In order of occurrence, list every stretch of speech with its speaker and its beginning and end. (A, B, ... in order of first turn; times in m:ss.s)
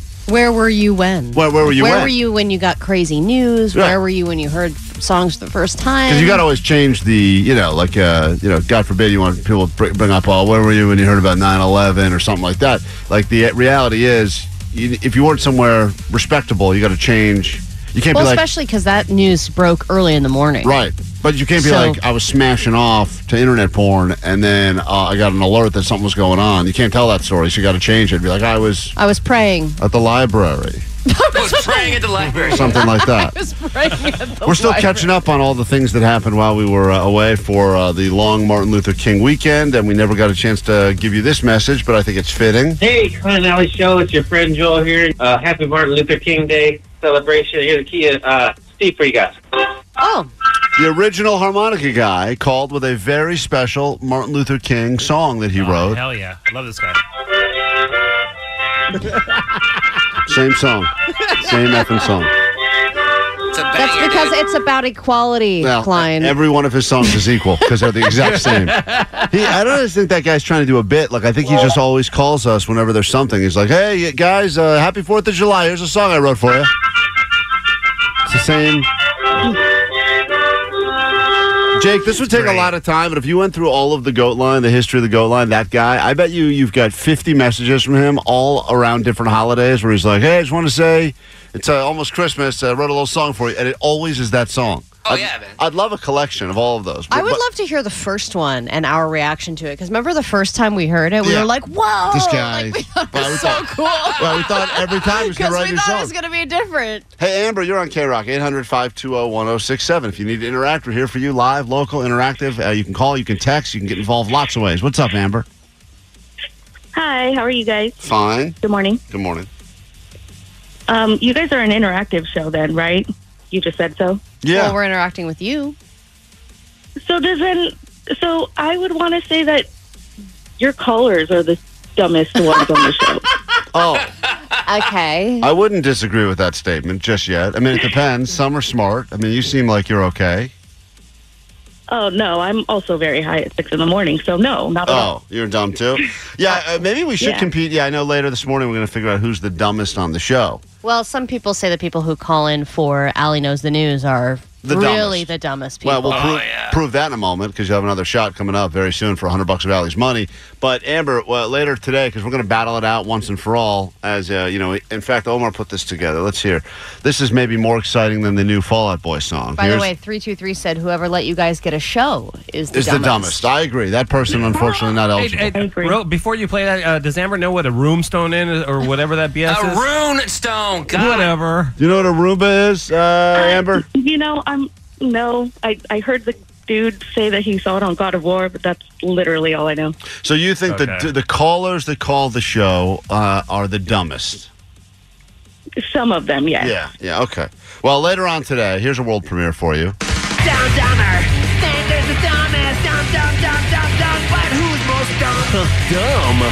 0:00.3-0:06.4 A
0:01.3-0:02.1 B
0:06.1-0:18.4 B
0:18.1-0:20.7 A
0:20.6-0:29.0 B
0:21.6-0:22.0 A
0:29.0-0:29.8 A
0:29.8-0:30.8 B
0:31.0-0:35.1 A
0:31.3-0:32.8 C
0:32.4-0:33.4 B
0:34.4-0:42.8 B
0:42.8-0:49.4 D
0:50.0-0:50.3 A
0:50.8-0:56.0 B
0:55.5-0:57.0 E
0:59.0-0:59.6 E
1:00.3-1:02.3 B
1:03.5-1:04.4 C
1:03.7-1:06.4 A
1:05.6-1:16.7 B
1:08.1-1:09.3 E
1:18.2-1:18.9 B
1:21.7-1:37.4 B
1:22.2-1:22.7 E
1:35.0-1:35.6 C
1:37.1-1:47.1 A
1:41.2-1:41.5 B
1:42.1-1:46.1 B
1:47.2-1:55.4 B
1:56.9-1:58.0 F
1:58.0-1:58.6 B
1:58.6-1:59.0 F
1:59.1-1:59.5 B
2:00.9-2:04.2 F
2:04.4-2:04.7 B
2:04.5-2:05.7 A
2:07.0-2:09.7 F
2:10.6-2:13.2 F
2:13.7-2:14.1 B
2:14.6-2:15.5 A
2:15.4-2:20.5 B
2:21.9-2:25.1 F
2:24.8-2:30.6 B
2:27.2-2:27.5 F
2:30.8-2:36.2 A
2:34.6-2:35.3 B
2:35.8-2:49.9 B
2:36.1-2:36.8 C
2:49.6-2:53.4 A
2:52.7-2:55.5 B
2:55.1-2:59.9 E
2:55.6-2:56.0 F
2:59.4-3:01.3 C
3:00.9-3:01.8 E
3:01.8-3:03.8 B
3:03.3-3:09.9 F
3:10.2-3:14.5 B
3:10.7-3:11.1 E
3:15.8-3:16.7 F
3:16.6-3:20.0 B
3:20.4-3:25.4 F
3:25.8-3:26.4 E